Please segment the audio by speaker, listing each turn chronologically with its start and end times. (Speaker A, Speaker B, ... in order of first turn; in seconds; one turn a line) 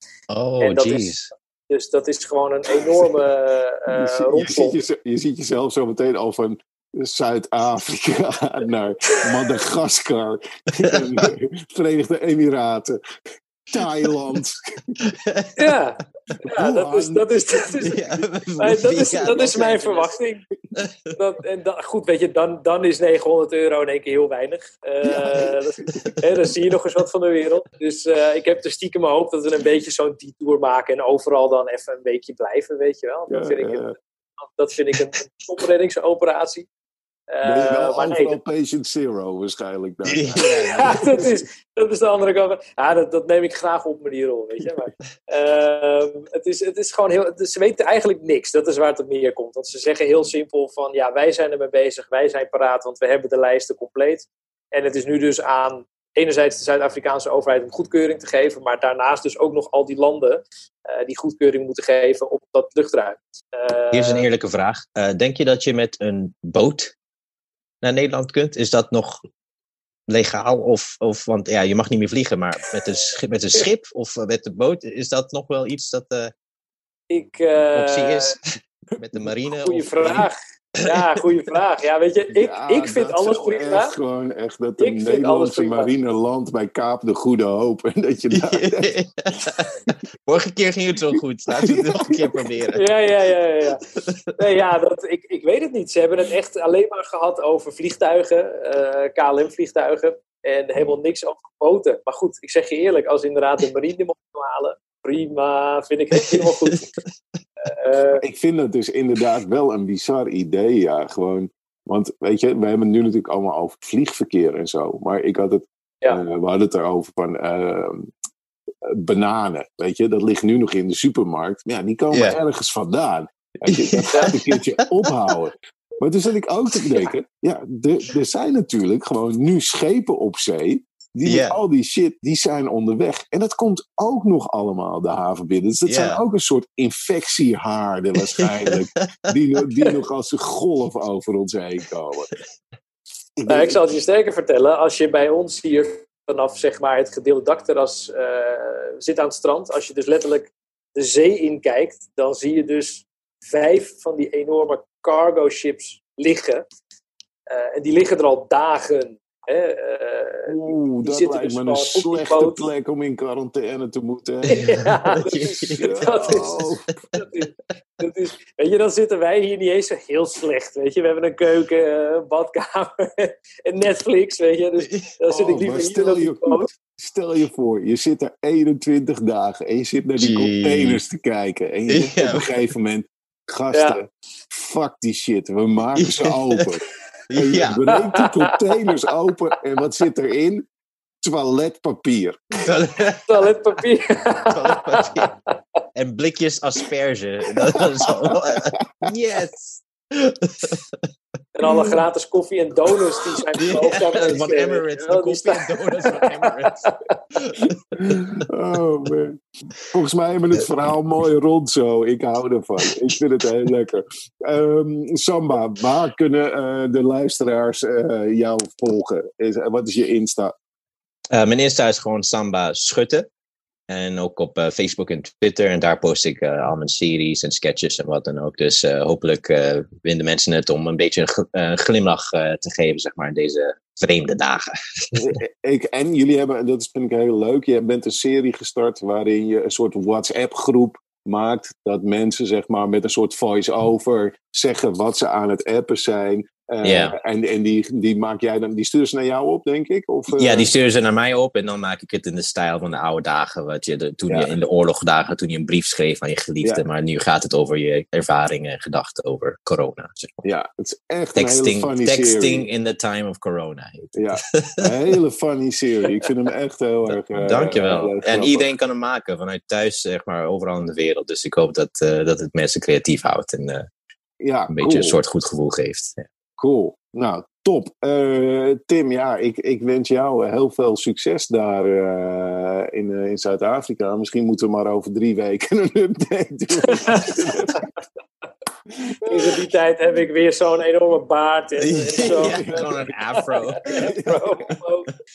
Speaker A: 0.3-1.3
Speaker B: 0.6-4.8
Speaker C: 3.9-13.0
Speaker A: 10.9-11.2
Speaker C: 13.7-14.9
Speaker A: 15.0-15.7
Speaker B: 15.6-18.1
Speaker C: 16.4-17.5
Speaker A: 17.8-20.1
Speaker B: 18.6-20.4
Speaker A: 20.8-21.2
Speaker B: 21.1-36.7
Speaker C: 25.0-26.2
Speaker C: 33.3-33.9
Speaker B: 37.3-38.4
Speaker C: 37.4-41.3
Speaker A: 40.0-41.3
Speaker B: 40.4-64.2
Speaker A: 63.9-66.9
Speaker A: 67.8-69.2
Speaker A: 70.1-76.3
Speaker B: 77.1-78.3
Speaker A: 77.7-81.2
Speaker B: 79.5-83.9
Speaker C: 82.3-88.9
Speaker B: 84.8-85.9
Speaker A: 88.3-92.8
Speaker C: 91.5-92.2
Speaker B: 92.7-93.8
Speaker A: 94.0-94.3
Speaker B: 94.4-106.9
Speaker A: 106.2-107.1
Speaker B: 107.6-108.2
Speaker C: 108.2-118.1
Speaker C: 118.9-142.3
Speaker A: 122.1-122.4
Speaker A: 123.7-125.3
Speaker A: 131.2-131.6
Speaker A: 135.9-136.2
Speaker A: 138.4-139.3
Speaker C: 143.4-143.8
Speaker B: 143.5-156.7
Speaker B: 157.5-162.6
Speaker C: 160.4-164.7
Speaker B: 164.5-176.7
Speaker A: 164.5-166.4
Speaker C: 165.7-166.9
Speaker A: 174.8-175.1
Speaker C: 175.3-186.8
Speaker A: 180.2-181.0
Speaker A: 181.9-182.5
Speaker B: 183.7-184.0
Speaker A: 185.9-186.8
Speaker A: 187.3-187.8
Speaker C: 187.3-190.6
Speaker B: 187.9-188.6
Speaker C: 191.2-192.4
Speaker A: 192.6-193.5
Speaker B: 193.2-195.3
Speaker A: 194.5-195.3
Speaker A: 195.9-201.1
Speaker C: 198.2-199.1
Speaker B: 201.5-207.0
Speaker A: 201.7-201.9
Speaker A: 203.6-208.5
Speaker C: 207.9-220.5
Speaker A: 221.3-223.3
Speaker A: 223.9-235.2
Speaker C: 235.1-250.7
Speaker A: 246.8-247.1
Speaker A: 250.3-260.4
Speaker C: 254.3-254.6
Speaker C: 260.4-262.7
Speaker A: 261.4-264.8
Speaker C: 264.1-268.7
Speaker A: 267.1-273.9
Speaker C: 274.4-275.2
Speaker A: 274.7-276.2
Speaker C: 276.6-287.8
Speaker B: 286.9-287.8
Speaker B: 289.2-295.1
Speaker A: 291.8-294.1
Speaker C: 292.2-292.9
Speaker C: 293.9-294.4